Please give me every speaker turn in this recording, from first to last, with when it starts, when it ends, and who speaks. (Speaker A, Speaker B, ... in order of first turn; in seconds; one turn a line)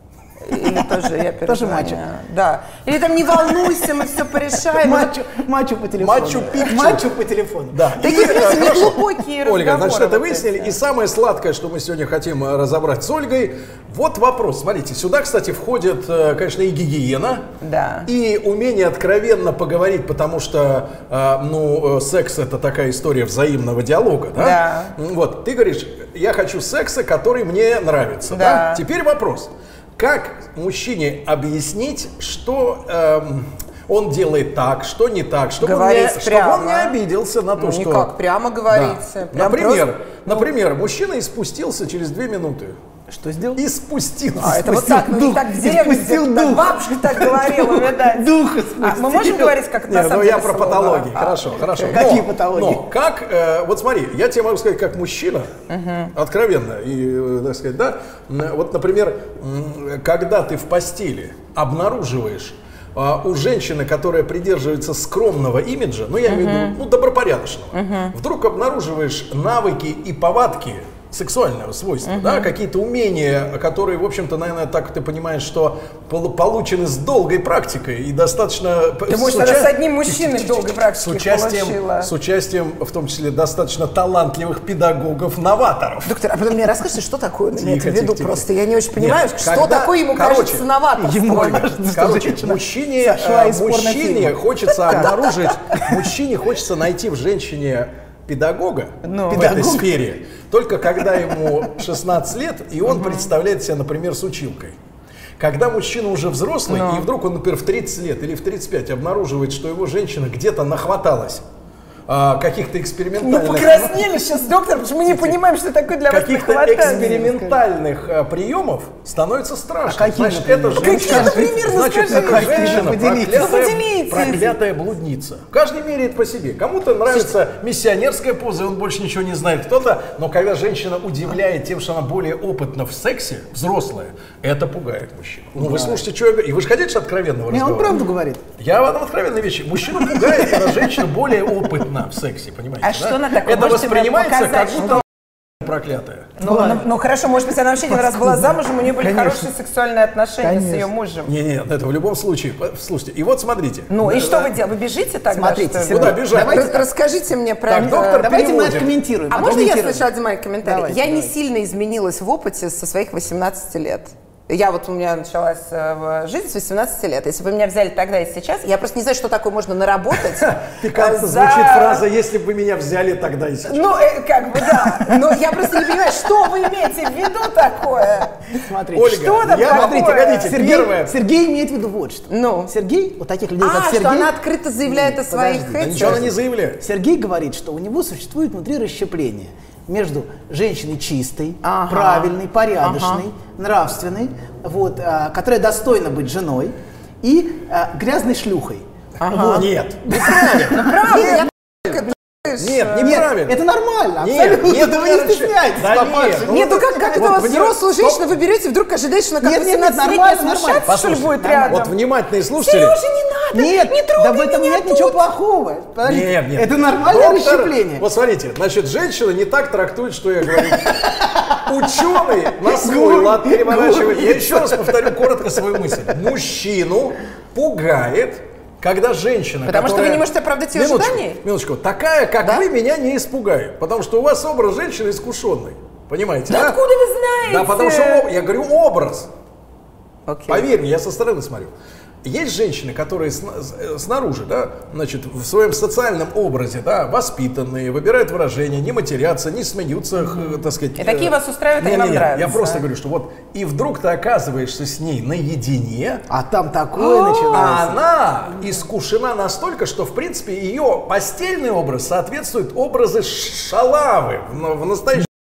Speaker A: 0.4-5.1
Speaker B: 1.4-2.0
Speaker B: 3.4-3.9
Speaker B: 4.5-7.8
Speaker C: 6.0-7.0
Speaker C: 7.7-17.5
Speaker A: 8.0-10.8
Speaker A: 17.6-18.1
Speaker C: 18.1-38.1
Speaker A: 24.4-24.9
Speaker A: 28.3-28.8
Speaker A: 35.6-37.0
Speaker A: 37.5-39.9
Speaker C: 38.7-42.8
Speaker B: 43.1-43.6
Speaker C: 43.5-44.7
Speaker A: 44.4-52.0
Speaker B: 44.4-49.5
Speaker C: 49.9-55.5
Speaker B: 51.9-52.8
Speaker A: 55.7-56.1
Speaker C: 56.1-86.1
Speaker A: 66.2-66.8
Speaker A: 67.7-68.1
Speaker A: 72.0-72.5
Speaker A: 79.1-82.1
Speaker A: 86.0-91.6
Speaker C: 87.5-90.7
Speaker B: 91.0-96.1
Speaker C: 91.2-104.8
Speaker A: 94.8-95.5
Speaker A: 99.0-99.5
Speaker B: 99.1-100.0
Speaker B: 101.1-101.5
Speaker A: 102.8-103.3
Speaker C: 105.4-111.5
Speaker A: 106.7-107.1
Speaker C: 112.1-114.0
Speaker A: 113.2-117.4
Speaker C: 115.0-115.4
Speaker C: 116.1-138.0
Speaker B: 119.9-123.6
Speaker A: 120.8-124.5
Speaker B: 135.6-136.0
Speaker B: 137.5-138.4
Speaker C: 138.6-146.3
Speaker A: 142.8-145.0
Speaker A: 146.4-151.3
Speaker B: 146.4-146.8
Speaker B: 147.9-149.5
Speaker B: 150.4-150.9
Speaker C: 151.2-154.5
Speaker A: 153.9-158.3
Speaker B: 155.3-156.9
Speaker C: 155.9-156.8
Speaker C: 157.7-158.9
Speaker B: 158.0-160.1
Speaker A: 159.3-172.1
Speaker B: 160.6-161.3
Speaker C: 170.1-173.8
Speaker A: 173.7-178.3
Speaker B: 178.5-202.1
Speaker C: 178.9-181.1
Speaker A: 179.0-180.5
Speaker A: 182.3-182.7
Speaker A: 183.6-186.3
Speaker C: 185.8-186.8
Speaker A: 191.6-193.2
Speaker A: 199.2-203.2
Speaker C: 199.4-201.2
Speaker C: 202.5-203.6
Speaker B: 203.0-207.6
Speaker C: 204.2-206.6
Speaker A: 206.4-211.9
Speaker C: 207.1-208.3
Speaker B: 209.4-211.8
Speaker C: 210.8-213.0
Speaker A: 212.6-215.2
Speaker B: 213.5-218.0
Speaker C: 216.0-236.8
Speaker B: 220.7-226.0
Speaker A: 229.7-231.4
Speaker A: 236.5-238.2
Speaker C: 237.4-239.3
Speaker A: 240.3-240.7
Speaker C: 240.5-241.7
Speaker C: 242.2-256.2
Speaker A: 250.3-252.8
Speaker B: 256.3-258.0
Speaker A: 256.9-257.7
Speaker C: 257.5-265.3